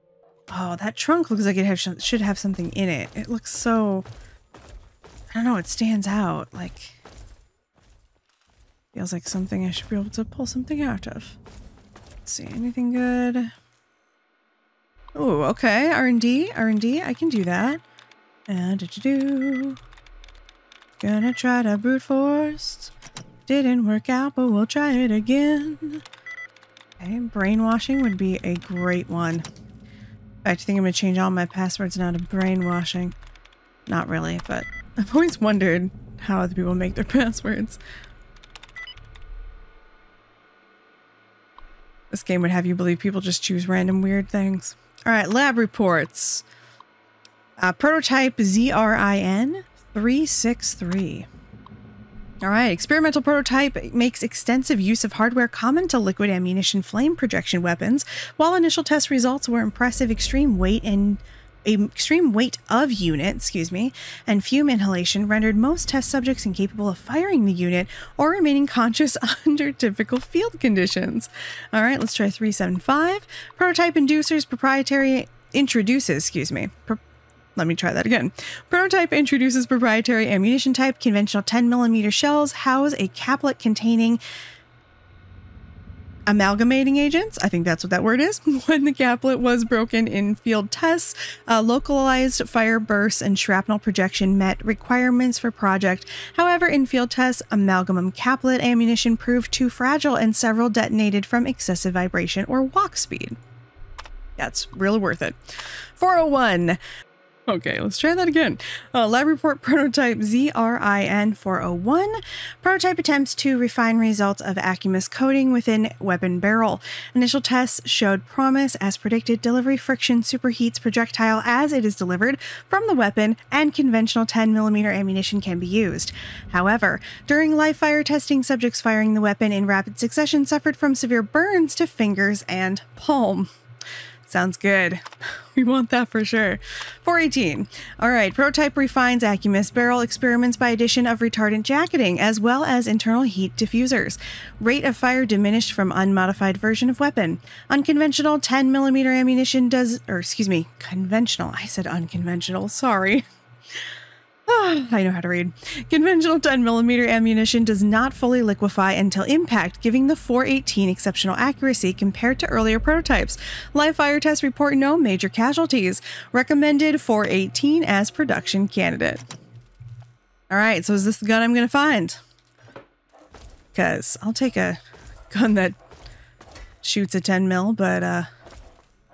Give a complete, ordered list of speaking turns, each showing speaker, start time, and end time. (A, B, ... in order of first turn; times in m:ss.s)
0:00.5-0:04.1 A
0:05.3-0:07.0 A
0:08.9-0:11.4 A
0:12.3-0:13.5 A
0:15.2-0:17.8 A
0:18.5-0:19.8 A
0:21.0-0:22.9 A
0:23.5-0:26.0 A
0:27.0-0:29.4 A
0:30.4-0:33.2 A
0:33.9-0:37.8 A
0:42.1-0:46.4 A
0:47.6-0:51.3 A
0:52.4-1:17.0 A
1:17.6-1:24.2 A
1:26.3-1:43.4 A
1:44.4-1:46.8 A
1:47.5-2:13.5 A
2:14.3-2:33.2 A
2:34.5-2:49.2 A
2:50.5-2:52.2 A
2:53.7-2:54.8 A
2:55.3-2:55.8 A
2:56.8-2:58.3 A